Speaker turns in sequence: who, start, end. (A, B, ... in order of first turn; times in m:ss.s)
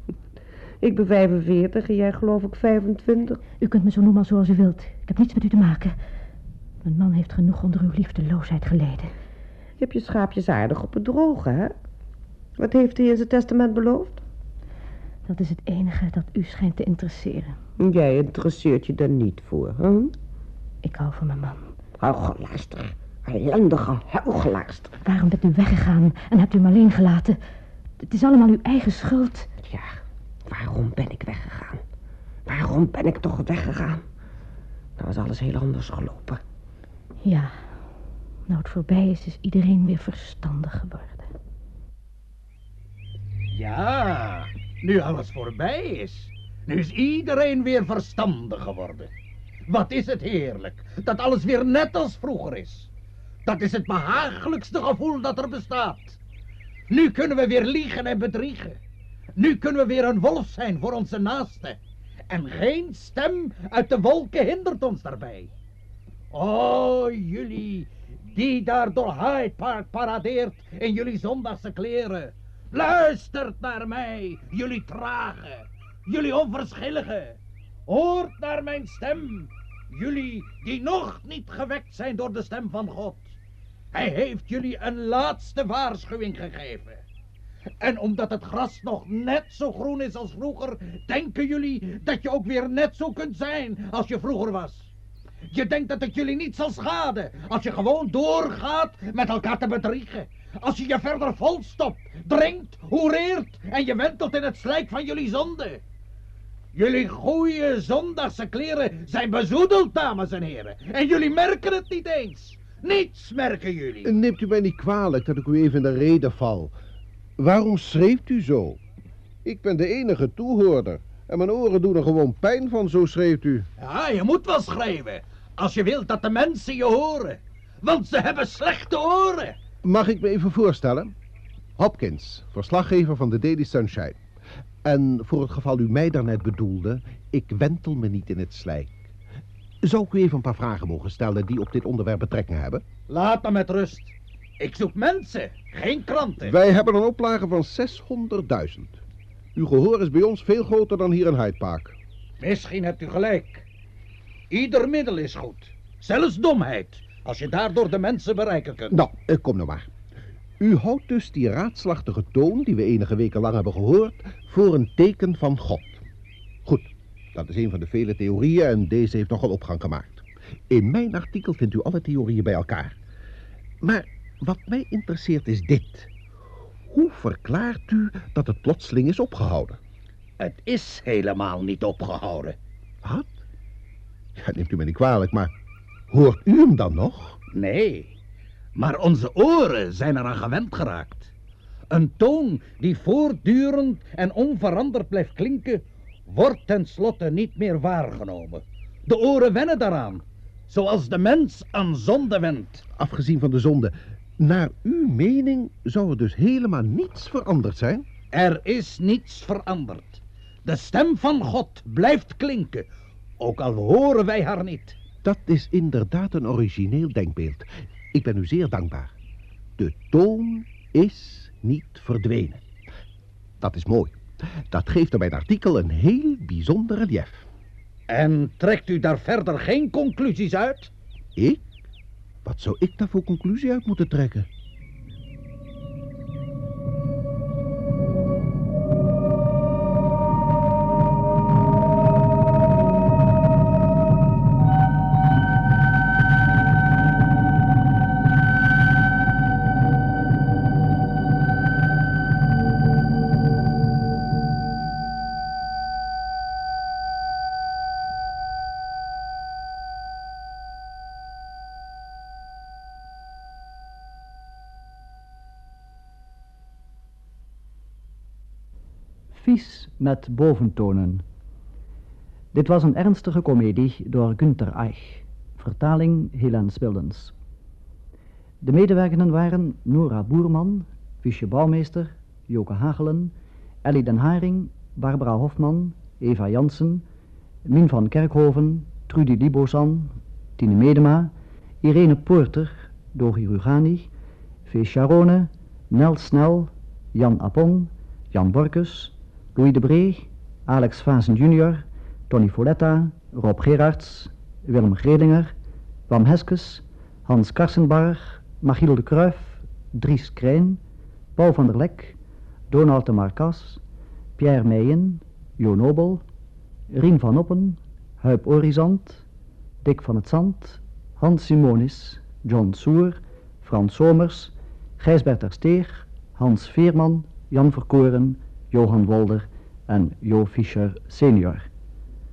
0:00.8-0:03.4 A
0:03.6-0:05.9 B
0:06.8-0:09.1 B
0:09.8-0:11.7 A
0:12.6-0:14.2 A
0:15.2-0:17.5 B
0:17.8-0:20.1 A
0:20.8-0:21.6 B
0:22.0-0:24.9 A
0:25.0-0:27.4 B
0:28.1-0:29.5 B
0:30.5-0:31.8 A
0:32.5-0:34.0 A
0:35.0-0:36.4 A
0:37.2-0:37.5 B
0:38.5-0:41.3 B
0:43.5-0:49.1 C
0:49.7-0:52.9 C
0:53.4-0:56.2 C
0:56.9-0:58.8 C
0:59.4-1:01.8 C
1:02.3-1:05.5 C
1:06.3-1:23.3 C
1:23.9-1:27.0 C
1:27.8-1:34.9 C
1:35.5-1:45.8 C
1:46.7-1:54.1 C
1:54.0-1:56.7 D
1:57.4-1:58.8 D
1:59.4-2:03.7 D
2:03.8-2:09.6 C
2:09.8-2:11.1 D
2:11.8-2:14.2 D
2:14.8-2:19.0 D
2:19.8-2:22.8 D
2:23.1-2:26.6 C
2:26.4-2:29.0 D
2:29.5-2:31.9 D
2:32.4-2:33.6 C
2:34.5-2:39.0 C
2:38.9-2:39.9 D
2:40.6-2:46.0 D
2:46.6-2:53.0 D
2:53.8-2:56.1 D
2:56.9-2:59.8 D
3:00.4-3:02.6 C
3:04.4-3:05.5 D
3:06.1-3:07.4 D
3:07.5-3:08.1 C
3:08.8-3:11.3 C
3:11.9-3:22.8 C
3:23.0-3:28.0 D
3:28.3-3:32.9 C
3:33.4-3:35.0 C
3:35.2-3:39.1 D
3:39.8-3:42.6 D
3:43.6-3:44.2 D
3:44.7-3:47.4 D
3:48.1-3:50.9 C
3:52.4-3:54.5 D
4:29.3-4:31.2 E
4:32.5-4:37.3 E
4:38.6-4:47.0 E
4:47.6-4:54.1 E
4:54.6-5:05.5 E
5:06.1-5:10.8 E
5:11.4-5:12.2 E
5:12.7-5:13.8 E
5:14.4-5:16.2 E
5:16.9-5:19.2 E
5:19.8-5:31.7 E